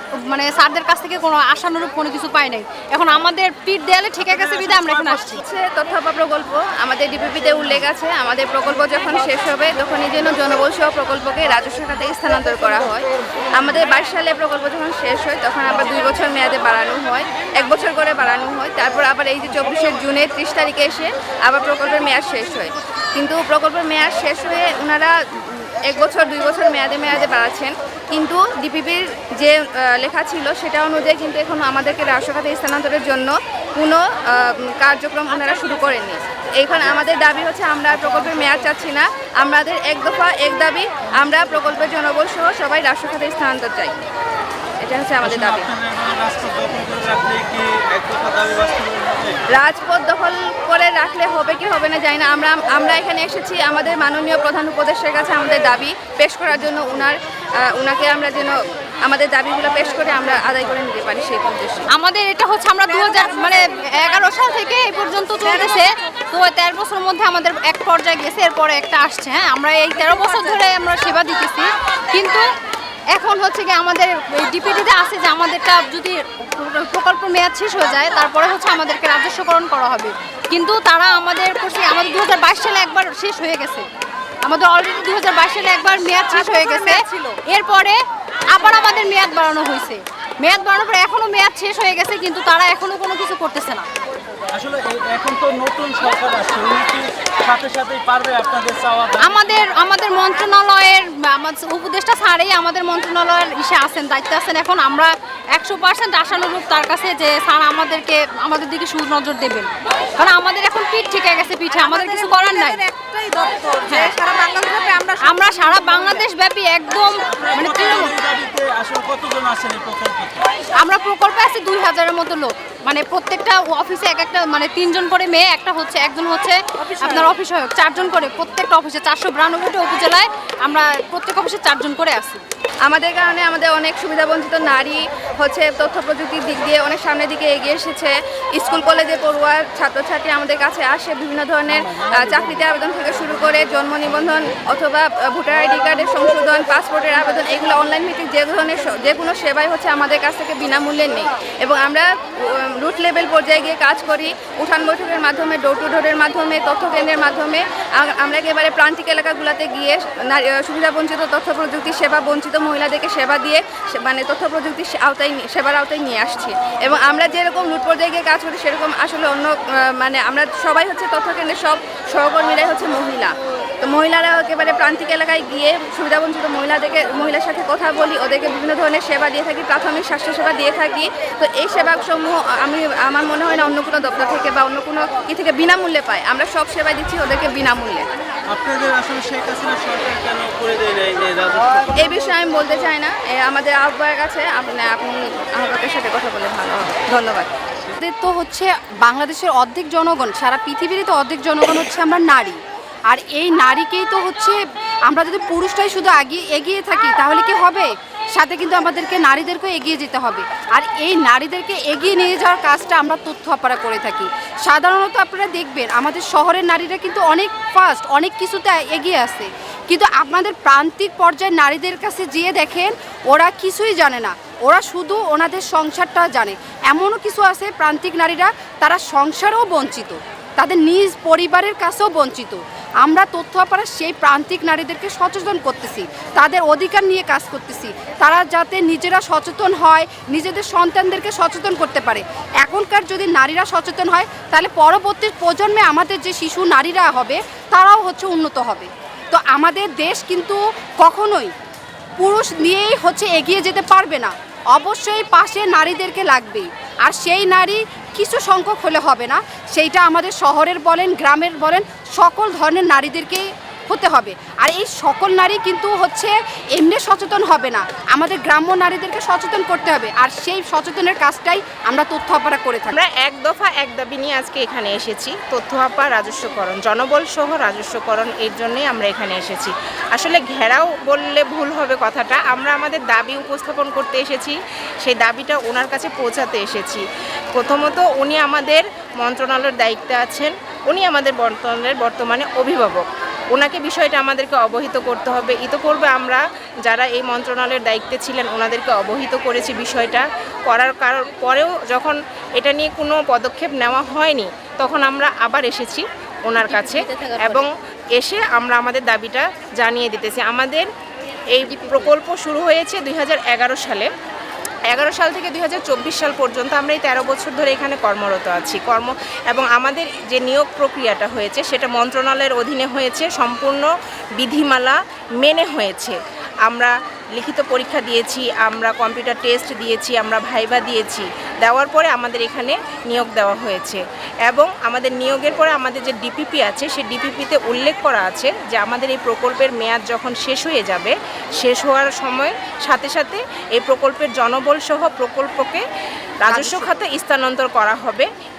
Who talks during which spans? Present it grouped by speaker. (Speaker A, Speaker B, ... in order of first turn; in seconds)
Speaker A: 0.3-5.4, 61.9-72.5, 73.1-83.9, 84.4-88.0, 88.5-93.9, 99.2-112.8, 113.8-114.2, 115.2-118.2, 120.8-132.4
Speaker B: 5.1-13.1, 13.6-44.0, 44.8-45.7, 49.5-61.9, 132.9-188.1, 192.0-197.5
Speaker C: 45.2-49.4, 94.5-99.7, 117.3-120.4, 188.5-191.9
Speaker D: 112.3-114.7, 306.7-307.6
Speaker E: 198.0-251.5, 252.2-273.0, 346.5-347.1
Speaker F: 272.9-287.0, 287.6-310.9, 311.5-314.1, 314.9-323.9, 324.4-326.2, 326.7-345.8, 346.4-348.3